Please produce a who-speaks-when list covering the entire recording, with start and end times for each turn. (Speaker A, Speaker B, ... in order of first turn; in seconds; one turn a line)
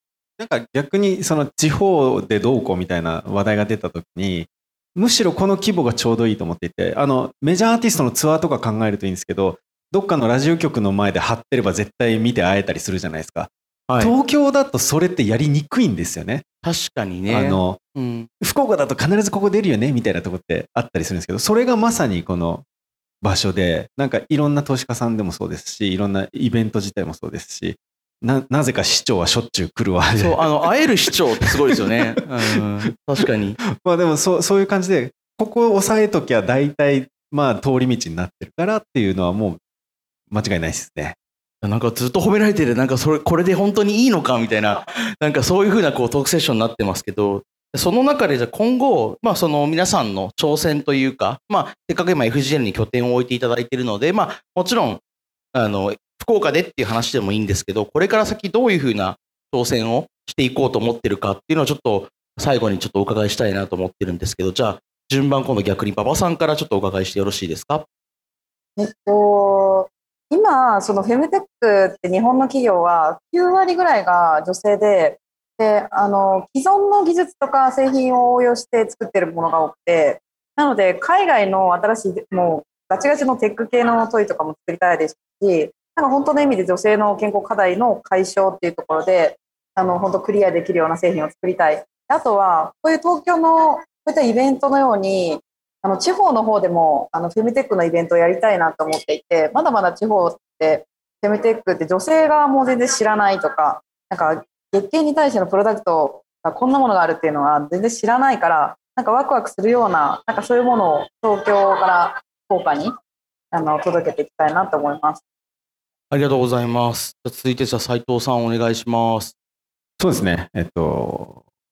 Speaker A: 0.4-16.4
Speaker B: 13.9-14.1
Speaker B: 16.6-18.3
Speaker A: 17.3-17.8
Speaker A: 18.4-22.6
Speaker A: 23.2-30.5
Speaker B: 30.2-33.6
Speaker A: 31.4-31.8
Speaker A: 33.8-39.6
Speaker A: 40.3-41.2
Speaker B: 41.6-55.0
Speaker B: 55.5-67.9
Speaker C: 68.8-112.9
Speaker C: 113.5-115.2
Speaker B: 116.1-119.3
Speaker A: 120.0-121.4